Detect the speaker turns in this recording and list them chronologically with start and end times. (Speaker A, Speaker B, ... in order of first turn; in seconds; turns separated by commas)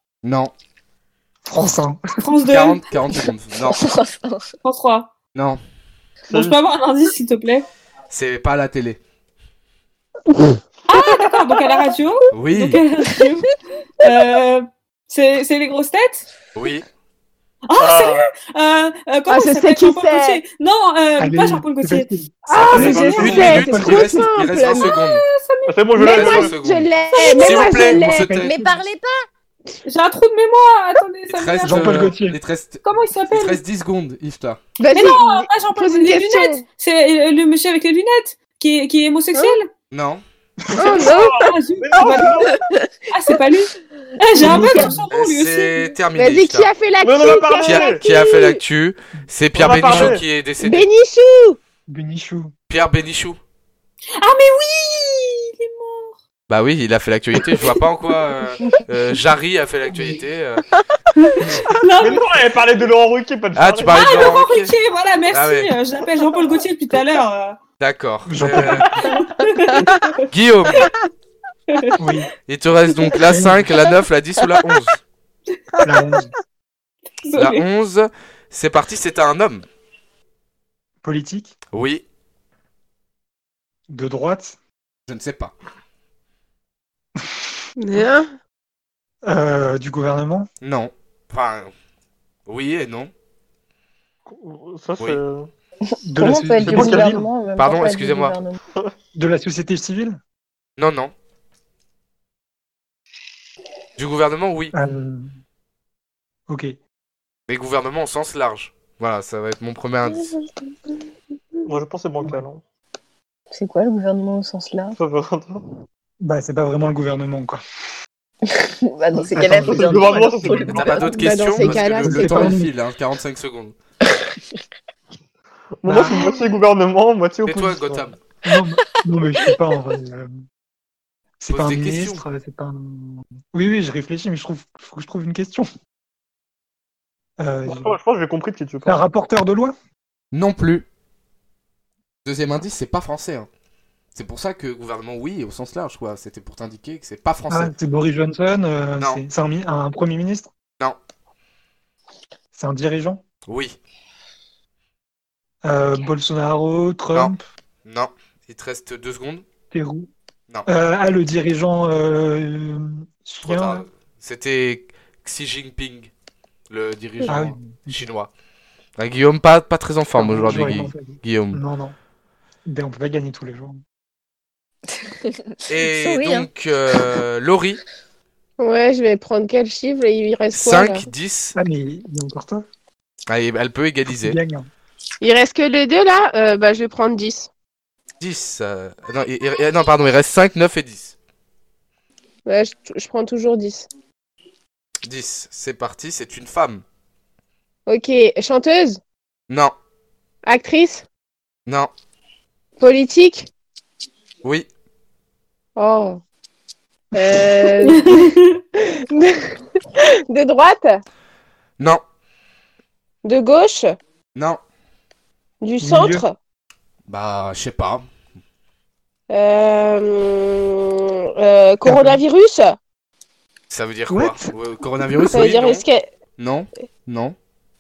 Speaker A: 0.2-0.5, Speaker B: 1.4-2.0, Speaker C: 2.2-2.8, Speaker A: 2.5-3.8, Speaker D: 3.6-4.5, Speaker C: 4.6-5.1, Speaker A: 5.3-5.6, Speaker E: 6.3-6.6, Speaker C: 6.3-7.7, Speaker A: 8.1-9.0, Speaker F: 10.3-10.6, Speaker C: 10.9-16.3, Speaker A: 12.3-12.8, Speaker A: 16.6-16.9, Speaker C: 17.7-22.1, Speaker E: 17.8-18.3, Speaker F: 19.3-20.4, Speaker B: 21.2-24.3, Speaker F: 22.4-24.9, Speaker A: 22.5-25.2, Speaker C: 22.7-23.5, Speaker C: 24.8-26.2, Speaker E: 25.7-26.5, Speaker F: 25.9-28.4, Speaker A: 26.0-28.5, Speaker C: 27.1-27.9, Speaker B: 28.1-28.8, Speaker D: 28.4-29.2, Speaker C: 29.9-32.2, Speaker A: 31.3-34.6, Speaker B: 31.6-32.4, Speaker C: 32.8-33.6, Speaker F: 34.8-36.6, Speaker C: 34.9-39.7, Speaker A: 39.9-40.2, Speaker B: 40.6-40.9, Speaker F: 40.8-41.5, Speaker E: 40.8-42.6, Speaker C: 41.0-42.6, Speaker C: 43.1-45.9, Speaker B: 44.4-45.0, Speaker A: 45.1-46.7, Speaker F: 46.1-48.6, Speaker E: 47.0-48.0, Speaker A: 47.6-50.9, Speaker E: 49.5-50.2, Speaker B: 49.8-50.2, Speaker F: 50.6-51.6, Speaker B: 51.9-52.5, Speaker A: 52.7-53.4, Speaker C: 54.2-56.1, Speaker A: 56.5-60.6, Speaker B: 59.9-60.2, Speaker C: 61.1-62.3, Speaker E: 62.0-64.3, Speaker A: 63.5-64.7, Speaker C: 63.9-67.6, Speaker A: 65.3-65.7, Speaker A: 67.8-69.0, Speaker B: 68.3-69.0, Speaker C: 69.0-70.2, Speaker F: 69.8-70.0, Speaker A: 70.3-70.9, Speaker C: 71.7-72.0, Speaker B: 72.0-72.3, Speaker A: 72.5-75.0, Speaker B: 73.3-73.7, Speaker B: 75.8-76.3, Speaker C: 77.2-77.6, Speaker A: 77.4-79.7, Speaker B: 81.0-81.5, Speaker A: 81.7-82.0, Speaker B: 83.9-84.6, Speaker A: 85.1-85.5, Speaker F: 87.8-88.3, Speaker B: 89.2-90.5, Speaker A: 90.6-91.7, Speaker A: 92.5-93.1, Speaker E: 94.3-95.5, Speaker D: 95.8-98.6, Speaker B: 96.1-97.3, Speaker E: 96.6-97.2, Speaker A: 97.6-98.4, Speaker B: 99.1-100.2, Speaker A: 100.8-101.1, Speaker A: 104.0-104.7, Speaker B: 104.7-105.3, Speaker B: 106.5-106.8, Speaker A: 107.5-110.3, Speaker E: 111.7-112.6, Speaker D: 113.5-115.0, Speaker E: 115.0-115.6, Speaker B: 116.2-117.6, Speaker D: 118.4-120.9, Speaker B: 119.2-120.8, Speaker E: 119.3-121.0, Speaker A: 120.7-123.8, Speaker F: 121.0-122.6, Speaker B: 121.6-122.7, Speaker E: 125.8-127.8, Speaker B: 125.9-126.3, Speaker A: 127.5-128.2, Speaker B: 127.8-130.3, Speaker B: 131.4-135.7, Speaker A: 131.5-132.2, Speaker B: 137.4-138.0, Speaker E: 137.7-139.0, Speaker B: 138.8-139.8, Speaker A: 140.3-140.9, Speaker A: 142.2-143.5, Speaker A: 144.1-147.7, Speaker B: 147.5-150.5, Speaker A: 149.0-149.2, Speaker B: 152.5-153.2, Speaker A: 153.5-153.8, Speaker B: 155.6-157.4, Speaker A: 157.8-159.4, Speaker B: 159.7-160.1, Speaker B: 160.7-163.8, Speaker A: 163.4-166.1, Speaker A: 166.7-168.3, Speaker B: 167.3-168.1, Speaker A: 169.0-171.6, Speaker B: 170.2-171.9, Speaker B: 172.7-173.8, Speaker D: 174.9-176.5, Speaker A: 175.7-177.8, Speaker F: 178.6-181.1, Speaker A: 180.5-181.6, Speaker B: 181.6-182.7, Speaker A: 183.3-184.4, Speaker B: 184.1-184.7, Speaker F: 185.2-187.5, Speaker A: 188.2-191.2, Speaker F: 192.4-193.9, Speaker A: 195.0-196.8, Speaker F: 197.9-199.0, Speaker A: 199.5-199.7, Speaker F: 200.4-201.1, Speaker F: 202.8-203.5, Speaker F: 205.8-206.2, Speaker F: 207.1-211.0, Speaker C: 207.9-208.4, Speaker F: 213.2-213.9, Speaker A: 214.3-214.6, Speaker F: 215.6-216.4, Speaker B: 215.8-216.2, Speaker A: 217.1-218.1, Speaker F: 219.3-222.8, Speaker B: 221.9-222.2, Speaker A: 223.7-225.8, Speaker B: 224.1-224.5, Speaker F: 225.3-226.1, Speaker A: 226.4-227.4